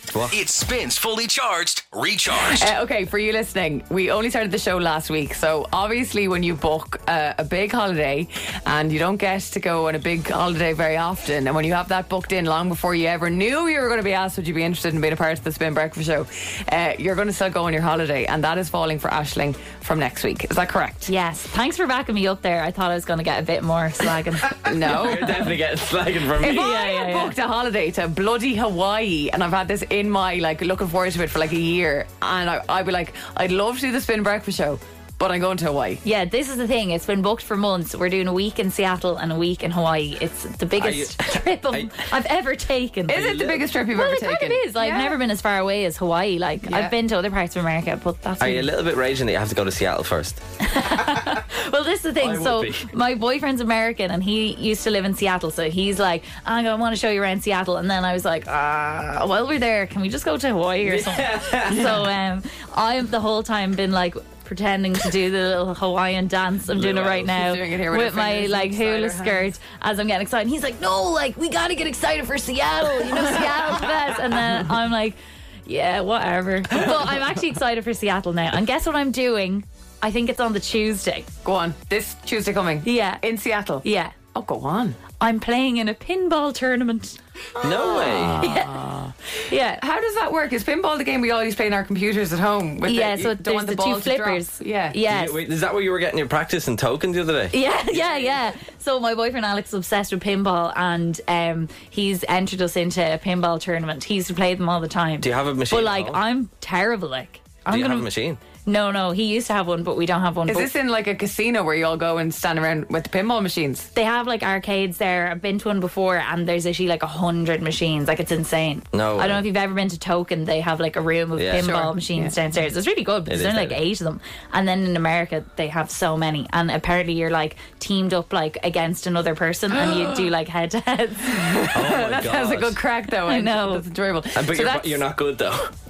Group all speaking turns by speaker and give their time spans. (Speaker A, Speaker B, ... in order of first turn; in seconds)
Speaker A: 0.3-2.7
Speaker B: 2.5-21.1, 24.7-25.5, 26.4-36.0, 43.1-45.2, 46.7-46.9, 67.0-69.5, 81.5-85.0, 87.6-89.1, 89.8-95.0, 97.9-98.3, 110.5-113.9, 121.6-122.3, 129.8-130.3, 131.4-135.1
Speaker C: 21.1-24.9, 26.4-27.3, 36.0-43.4, 43.9-48.7, 50.6-81.3, 82.8-83.2, 83.8-84.2, 85.2-87.2, 88.2-88.9, 89.5-89.8, 92.9-95.4, 97.5-108.1, 108.7-110.7, 114.0-131.7, 133.3-133.8
Speaker D: 24.9-26.7, 40.8-42.1, 43.2-43.6, 48.4-50.4, 52.2-52.9, 60.8-62.1, 66.8-67.1, 87.6-88.6, 95.1-97.5, 105.2-106.2, 107.7-108.4, 118.9-119.5, 121.4-121.8, 123.3-123.8, 131.7-132.8, 134.3-135.7